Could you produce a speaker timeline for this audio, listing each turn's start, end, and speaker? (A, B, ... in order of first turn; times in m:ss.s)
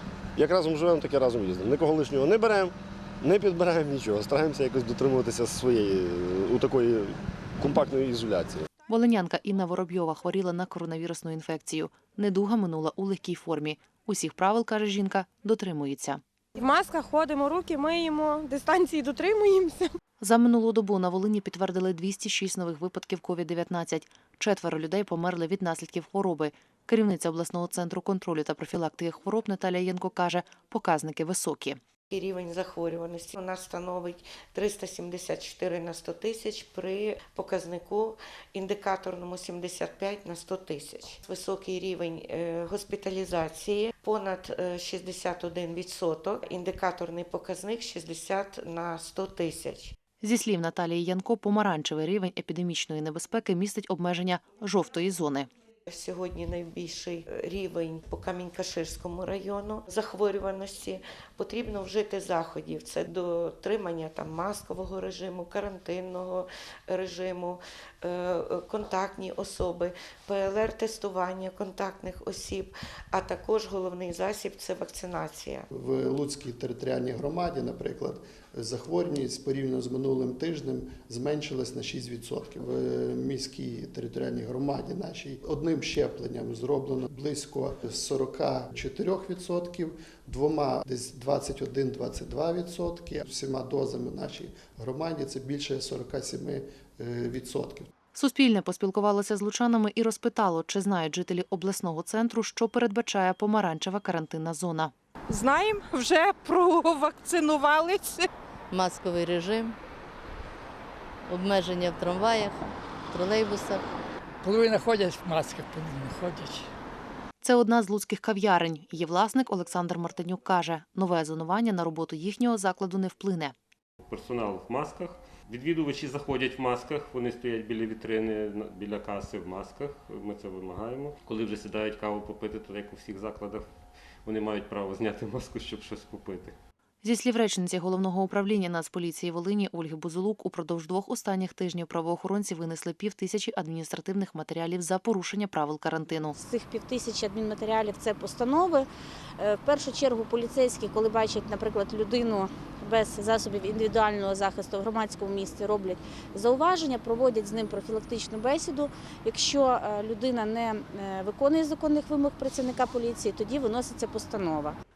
0:00.4-0:08.7 A
0:08.9-0:16.2 B
0:16.6-0:19.9 C
0:20.2-0:31.8 B
0:32.1-0:49.9 D
0:50.2-0:55.5 B
0:55.9-1:15.7 D
1:15.7-1:37.9 E
1:38.1-1:44.9 B
1:45.5-1:46.0 C
1:46.7-1:48.2 C
1:48.7-1:49.8 F
1:51.2-1:53.9 F
1:54.4-1:56.6 G
1:57.4-2:03.5 B
2:04.1-2:13.7 H
2:14.2-2:16.6 H
2:17.0-2:26.4 B
2:26.3-2:28.8 I
2:29.4-2:44.8 I